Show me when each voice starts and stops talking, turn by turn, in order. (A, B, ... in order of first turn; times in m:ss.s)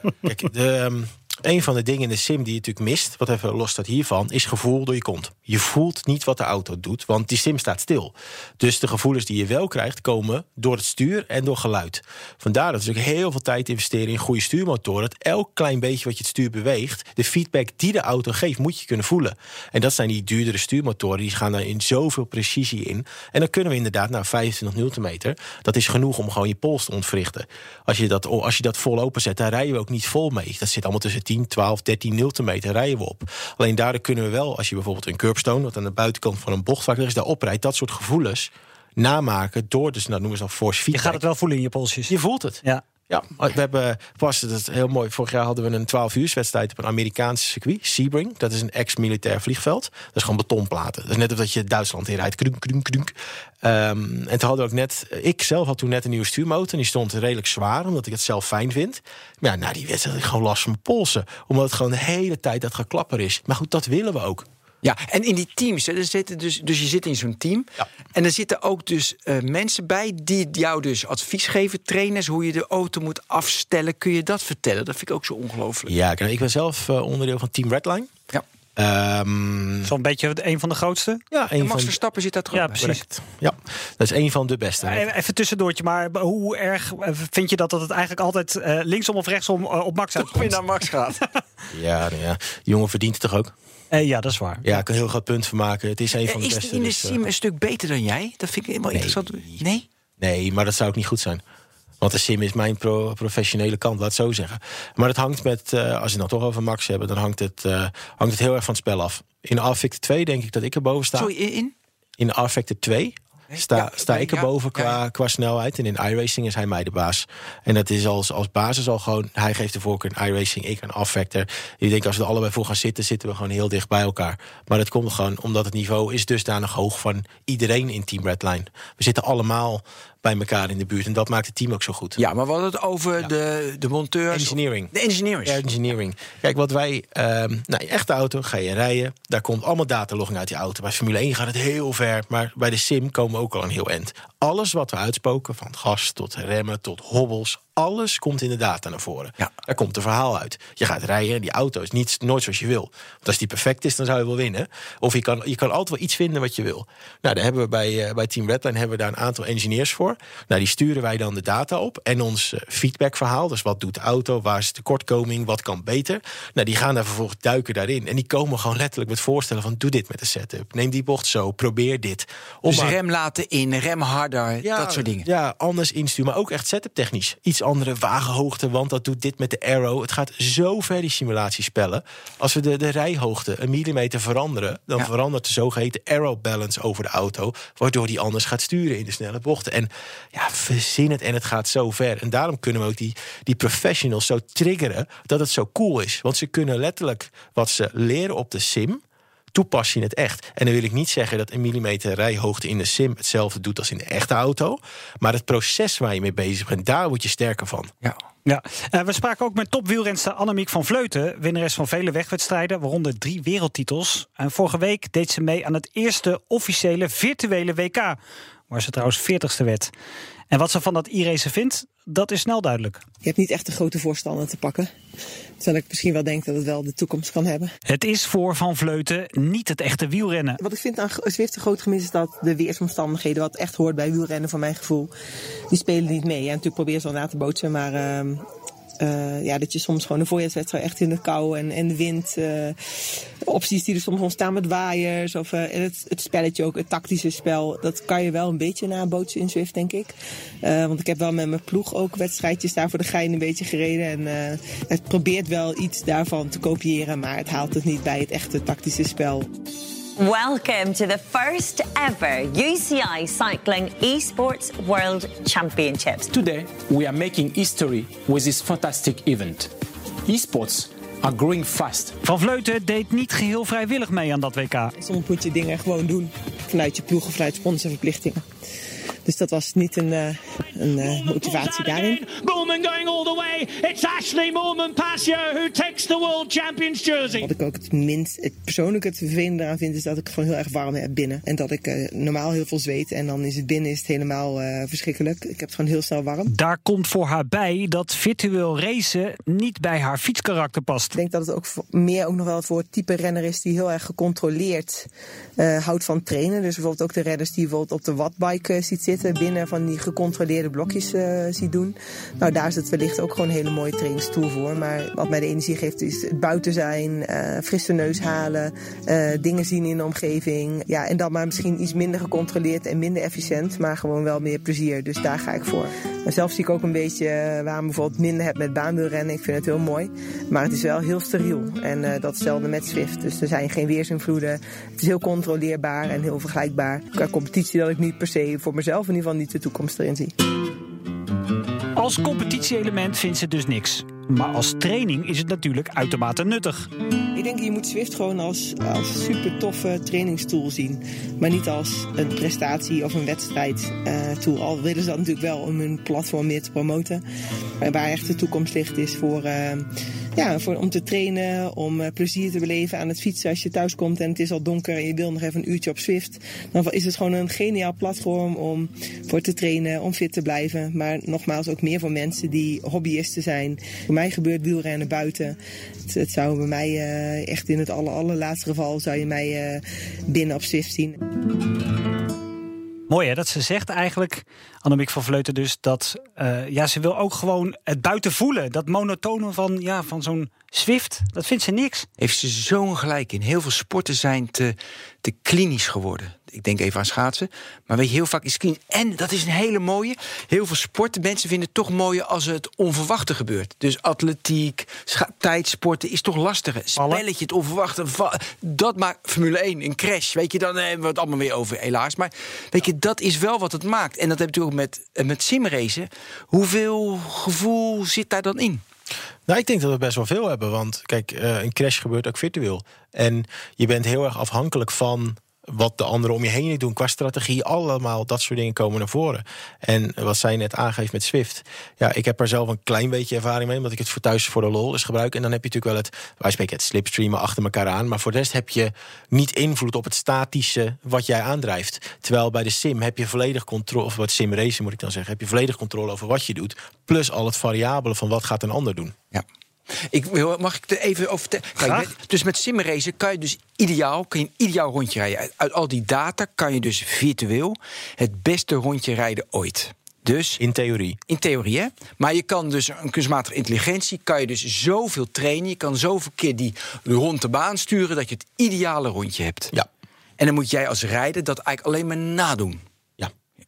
0:00.2-0:41.2 A
0:40.9-0:42.8 B
0:42.1-1:04.4 A
1:04.8-1:15.9 C
1:15.9-1:18.1 A
1:18.8-1:19.9 A
1:19.8-1:21.2 B
1:21.3-1:22.0 A
1:21.6-1:22.9 C
1:22.5-1:23.0 B
1:22.8-1:25.0 A
1:24.8-1:30.6 B
1:30.2-1:31.2 C
1:31.7-1:33.5 A
1:33.9-1:34.8 B
1:34.6-1:37.2 A
1:36.2-1:39.9 C
1:38.9-1:39.6 A
1:40.2-1:41.4 A
1:42.0-1:51.3 A
1:51.1-1:51.7 C
1:52.2-2:12.2 A
1:53.5-1:55.0 C
2:12.2-2:15.6 C
2:14.3-2:14.9 A
2:15.4-2:53.0 A
2:52.6-2:55.3 C
2:54.6-3:19.0 A
3:19.5-3:27.9 A
3:28.4-3:38.2 B
3:38.7-3:39.9 B
3:40.5-3:43.0 B
3:43.2-3:44.9 D
3:45.6-3:47.7 D
3:47.9-3:50.6 B
3:50.6-3:55.1 D
3:55.7-3:58.4 D
3:59.0-4:02.8 D
4:03.4-4:19.5 D
4:20.2-4:26.3 E
4:26.3-4:29.7 F
4:30.3-4:32.1 F
4:32.2-4:34.9 B
4:35.0-4:38.4 D
4:39.2-4:42.2 D
4:40.9-4:47.5 G
4:47.4-4:56.5 D
4:56.5-5:01.2 B
5:01.1-5:05.1 D
5:05.6-5:40.3 D
5:42.0-5:46.9 B
5:47.3-5:57.2 D
5:57.8-6:15.6 D
6:16.1-6:21.2 D
6:23.1-6:32.1 B
6:32.2-6:58.8 C
6:47.0-6:47.2 B
6:59.5-7:29.1 A
7:30.0-7:40.6 C
7:31.8-7:32.1 B
7:40.6-7:41.2 A
7:41.3-7:49.7 C
7:50.4-7:52.8 C